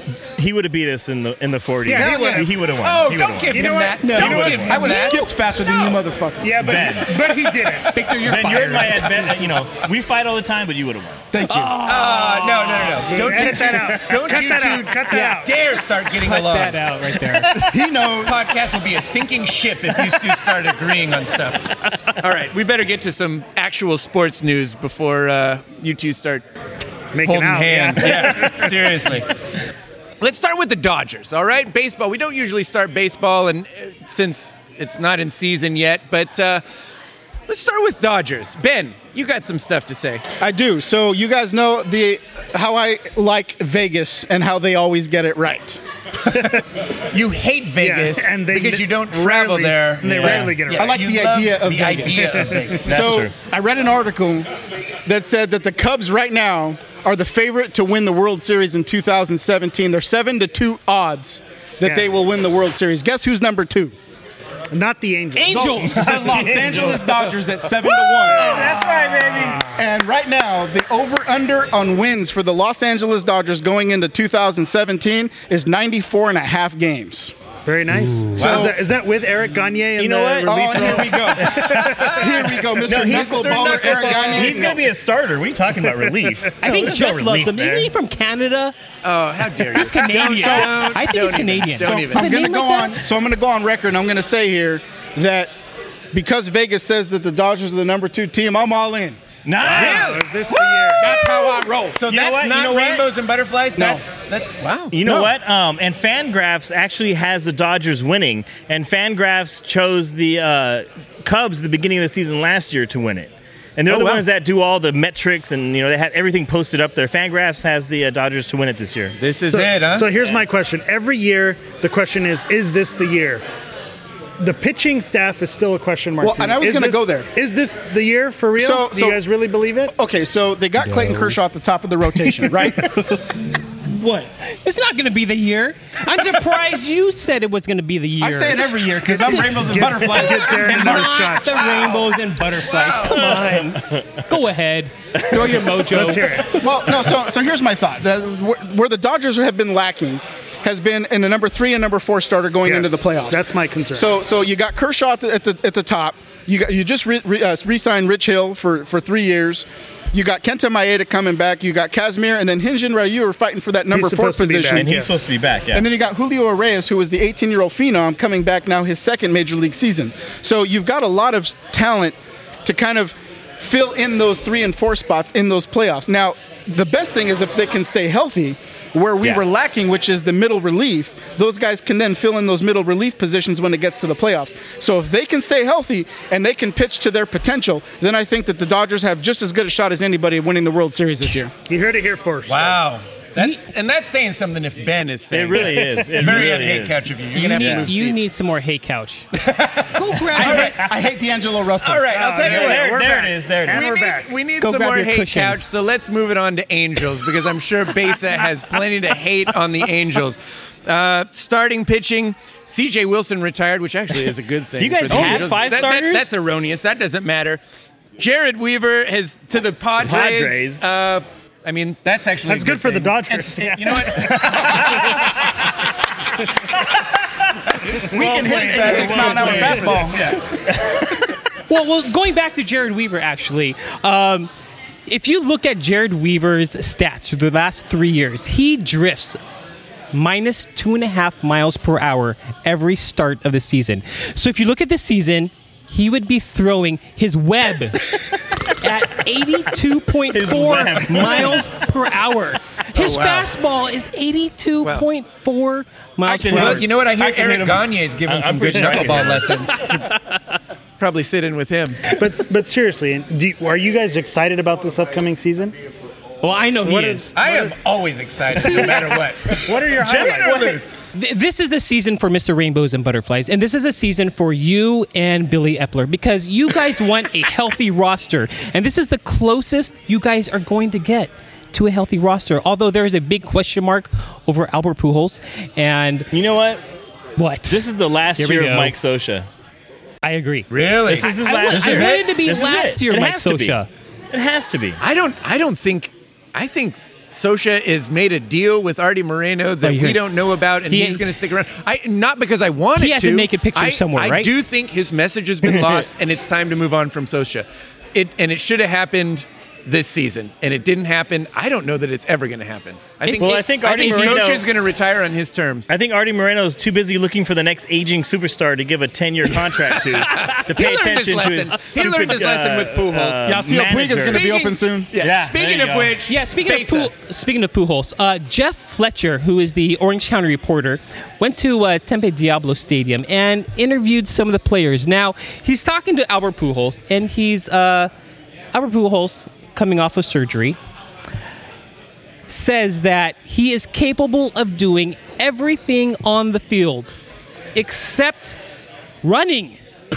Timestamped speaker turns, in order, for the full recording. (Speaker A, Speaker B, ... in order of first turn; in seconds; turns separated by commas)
Speaker A: 0.4-4.8, Speaker B: 1.9-2.5, Speaker C: 1.9-2.5, Speaker D: 2.8-5.2, Speaker B: 3.5-4.9, Speaker E: 4.0-5.3, Speaker C: 4.7-7.0, Speaker B: 6.4-8.0, Speaker A: 6.6-7.1, Speaker E: 7.9-9.1, Speaker A: 8.2-11.2, Speaker C: 11.3-11.8, Speaker E: 11.5-13.0, Speaker D: 11.8-26.4, Speaker B: 13.0-15.5, Speaker E: 16.2-17.5, Speaker C: 17.5-18.4, Speaker B: 27.1-28.8, Speaker D: 27.2-29.3, Speaker D: 30.2-36.6, Speaker D: 37.5-40.2, Speaker C: 40.4-45.8, Speaker D: 47.1-53.2, Speaker B: 47.8-51.0, Speaker A: 50.0-50.6, Speaker C: 50.8-54.5, Speaker B: 52.1-52.8, Speaker A: 52.9-53.3, Speaker C: 55.0-63.9, Speaker B: 61.8-62.1, Speaker B: 64.7-65.9, Speaker E: 65.4-66.8, Speaker C: 65.5-68.6, Speaker A: 65.6-67.1, Speaker A: 68.3-69.6, Speaker B: 68.3-69.7, Speaker E: 68.6-69.0, Speaker C: 69.7-77.3, Speaker B: 77.7-82.2, Speaker C: 78.3-78.7, Speaker D: 78.4-78.7, Speaker A: 80.0-80.6, Speaker C: 80.4-84.9, Speaker A: 81.5-82.1, Speaker D: 81.8-82.1, Speaker A: 82.8-87.9, Speaker D: 83.1-84.7, Speaker E: 86.6-88.7, Speaker D: 89.0-92.2, Speaker E: 89.7-93.0, Speaker C: 90.1-91.0, Speaker C: 91.8-95.5, Speaker C: 96.1-99.2, Speaker A: 99.5-100.2, Speaker B: 99.6-101.1, Speaker D: 99.6-105.0, Speaker C: 101.0-102.0, Speaker A: 102.1-103.1, Speaker C: 103.8-104.0, Speaker A: 104.9-119.2, Speaker C: 105.0-105.3, Speaker C: 113.9-114.2, Speaker D: 119.2-120.1, Speaker B: 119.5-123.4, Speaker B: 124.4-129.9, Speaker C: 126.2-127.3, Speaker C: 128.6-129.2, Speaker C: 129.9-133.0, Speaker E: 130.8-131.3, Speaker E: 132.6-133.2, Speaker C: 133.9-134.3, Speaker E: 134.5-146.7, Speaker C: 138.2-141.4, Speaker B: 139.3-141.7, Speaker D: 141.5-143.4, Speaker A: 143.2-144.0, Speaker B: 145.9-146.6, Speaker C: 146.6-165.0, Speaker B: 152.6-154.1, Speaker B: 163.9-165.2, Speaker A: 164.7-165.8, Speaker C: 165.7-191.5, Speaker B: 191.7-192.9, Speaker D: 192.4-198.3, Speaker A: 195.3-197.9, Speaker B: 195.7-196.0, Speaker E: 197.3-199.3, Speaker D: 199.4-200.8, Speaker E: 199.9-200.8, Speaker C: 200.4-202.2, Speaker D: 201.8-217.6, Speaker B: 202.1-204.3, Speaker A: 202.4-203.9, Speaker E: 204.6-205.6, Speaker A: 214.8-216.3, Speaker E: 215.1-215.4, Speaker D: 218.2-225.5, Speaker A: 220.0-220.8, Speaker B: 222.5-224.8, Speaker A: 224.5-225.2, Speaker D: 227.8-230.4, Speaker C: 228.1-230.2, Speaker A: 228.1-230.1, Speaker A: 230.7-231.1, Speaker E: 231.7-234.5, Speaker E: 235.1-239.4, Speaker E: 240.1-248.1, Speaker E: 248.7-256.9, Speaker A: 250.3-251.6, Speaker D: 252.9-253.5, Speaker C: 256.2-257.9, Speaker D: 256.5-260.1, Speaker A: 258.2-259.7, Speaker D: 261.0-262.1, Speaker B: 262.1-265.8, Speaker E: 266.4-267.3, Speaker B: 266.8-267.7, Speaker D: 267.3-270.9, Speaker B: 268.6-270.8, Speaker E: 268.6-268.9, Speaker E: 271.1-286.3, Speaker A: 286.3-286.8, Speaker E: 287.4-288.9, Speaker A: 287.7-289.5, Speaker E: 290.2-293.9, Speaker D: 290.7-292.3, Speaker A: 290.9-293.8, Speaker A: 294.3-295.0, Speaker D: 295.0-315.9, Speaker E: 299.8-300.3, Speaker E: 300.9-301.2, Speaker E: 303.0-304.5, Speaker E: 313.3-314.4, Speaker A: 313.3-314.7, Speaker A: 315.9-324.5, Speaker D: 319.9-323.6, Speaker C: 323.4-325.1, Speaker D: 324.2-327.1, Speaker A: 325.1-326.2, Speaker E: 326.3-338.1, Speaker E: 338.7-340.8, Speaker E: 342.5-347.1, Speaker E: 347.7-348.6, Speaker E: 349.2-349.8